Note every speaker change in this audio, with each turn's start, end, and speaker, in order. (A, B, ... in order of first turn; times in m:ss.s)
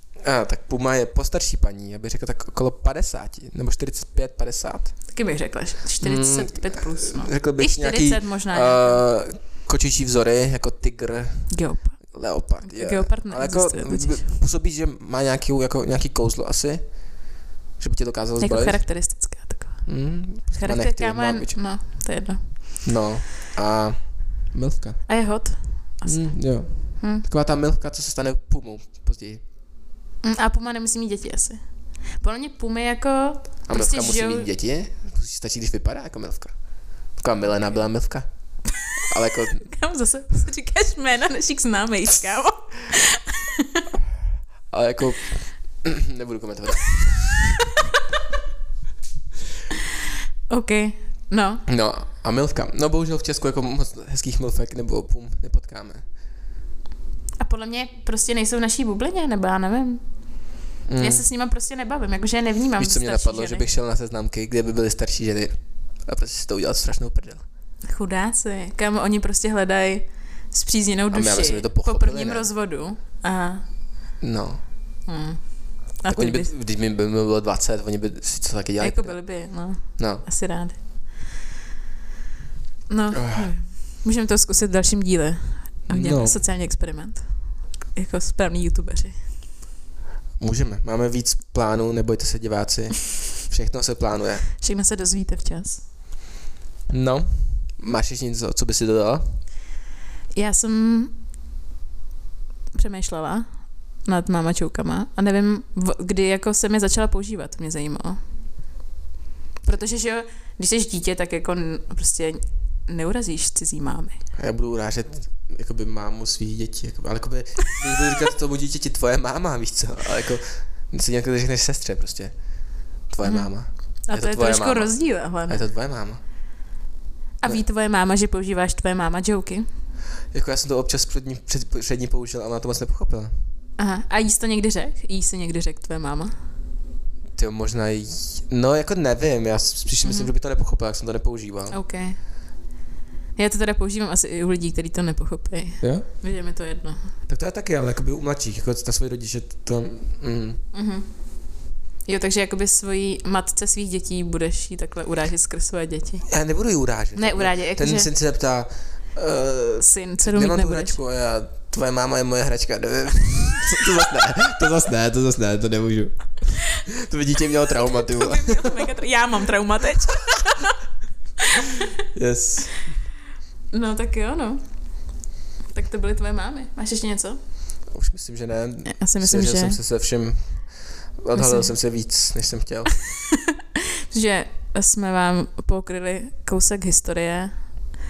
0:00.2-0:05.0 A
0:05.1-0:09.0 B
0:06.0-0:11.6 A
0:11.5-0:14.2 B
0:12.1-0:17.0 A
0:17.8-0:19.0 A
0:18.4-0:19.9 B
0:19.8-0:22.0 A
0:20.6-0:22.4 B
0:22.8-0:25.2 A
0:25.1-0:26.4 B
0:26.0-0:29.4 A
0:27.0-0:27.2 B
0:30.2-0:31.6 B
0:32.2-0:34.5 B
0:33.7-0:36.5 A
0:37.2-0:38.2 A
0:39.1-0:39.7 A
0:39.6-0:43.8 B
0:44.7-0:47.5 A
0:50.5-0:51.6 B
0:51.7-0:56.0 A
0:57.4-1:00.0 B
1:00.9-1:01.2 A
1:01.0-1:03.6 B
1:02.8-1:07.4 A
1:07.9-1:13.6 B
1:11.1-1:12.5 A
1:14.2-1:14.6 A
1:15.0-1:16.5 B
1:16.0-1:20.2 A
1:18.8-1:20.8 B
1:22.9-1:27.3 B
1:23.1-1:23.5 A
1:25.9-1:26.4 A
1:27.9-1:29.2 B
1:30.4-1:34.5 A
1:34.6-1:35.8 B
1:36.9-1:39.4 A
1:40.3-1:41.1 B
1:42.7-1:48.2 B
1:49.6-1:54.2 B
1:54.4-2:02.3 A
2:03.1-2:06.2 A
2:03.2-2:03.5 B
2:04.1-2:05.6 B
2:07.4-2:09.6 B
2:10.3-2:13.3 A
2:13.8-2:16.3 B
2:17.4-2:21.8 A
2:20.0-2:20.3 B
2:21.7-2:22.2 B
2:23.4-2:27.1 B
2:25.8-2:26.0 A
2:27.3-2:30.6 A
2:30.7-2:31.1 B
2:32.0-2:36.2 B
2:36.3-2:48.8 A
2:37.2-2:38.1 B
2:39.8-2:41.0 B
2:48.0-2:50.8 B
2:52.1-2:52.8 A
2:53.7-2:54.6 B
2:55.7-2:57.4 B
2:57.9-3:00.6 A
2:58.8-2:59.8 B
3:01.2-3:02.9 A
3:01.3-3:01.7 B
3:04.1-3:07.6 B